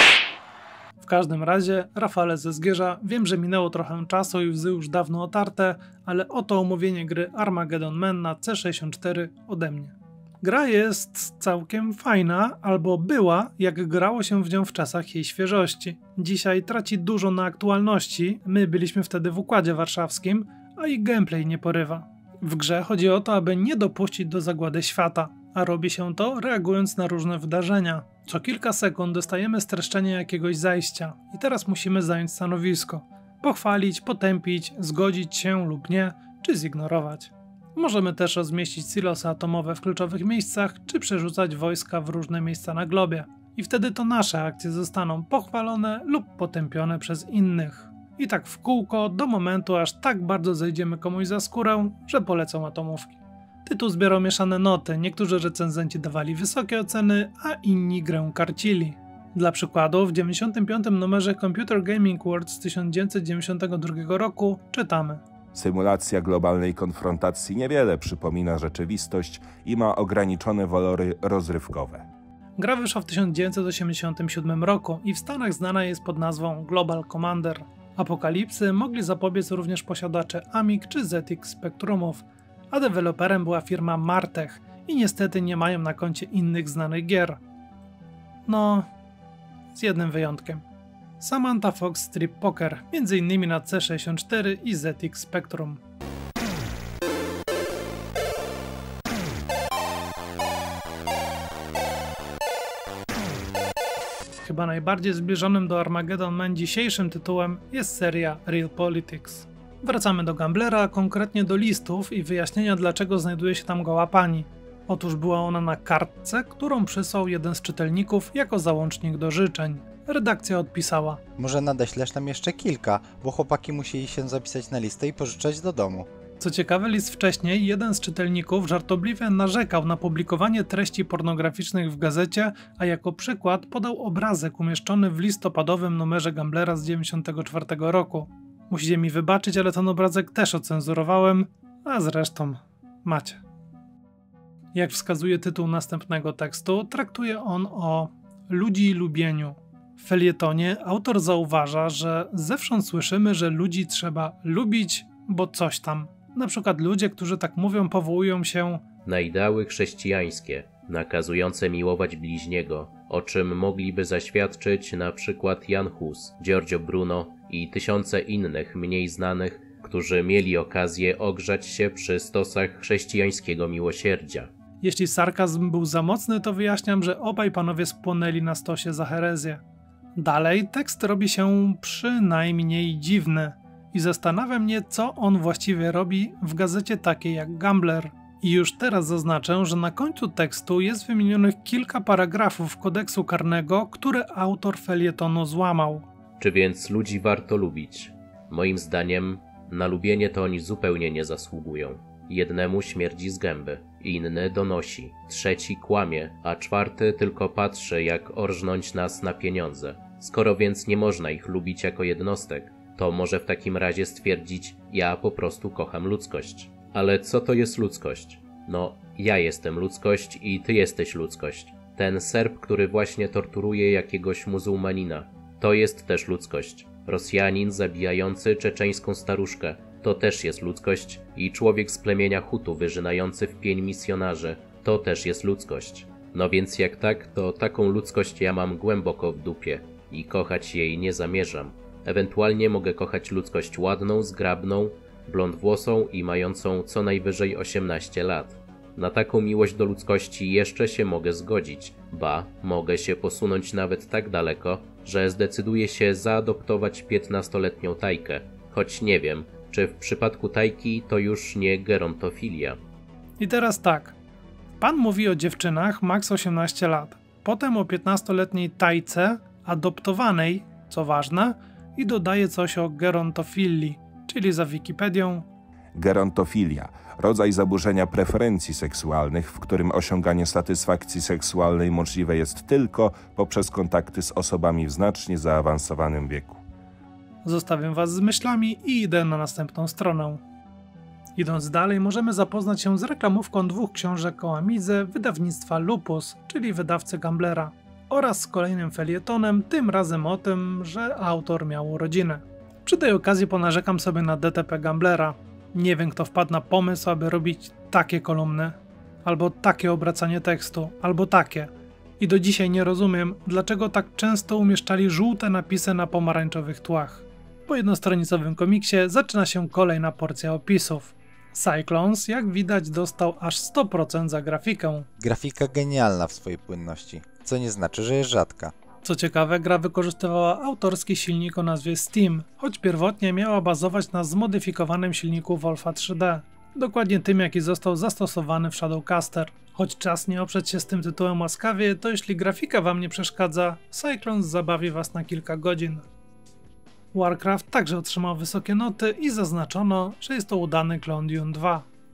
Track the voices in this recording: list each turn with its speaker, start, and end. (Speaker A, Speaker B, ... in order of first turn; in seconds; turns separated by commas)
Speaker A: 1.0-65.2, Speaker B: 65.5-72.1, Speaker A: 72.6-87.4, Speaker A: 88.5-88.9, Speaker A: 89.7-90.6, Speaker A: 91.2-95.8, Speaker A: 104.4-121.2, Speaker C: 121.4-126.1, Speaker A: 126.4-143.4, Speaker A: 144.7-158.8, Speaker D: 159.1-174.5, Speaker A: 174.8-179.6, Speaker A: 180.2-196.1, Speaker D: 196.4-262.8, Speaker A: 263.4-264.2, Speaker A: 264.8-275.5, Speaker B: 276.0-286.6, Speaker A: 287.4-290.4, Speaker A: 291.4-325.1, Speaker C: 325.2-328.7, Speaker A: 329.0-346.1, Speaker A: 347.1-351.9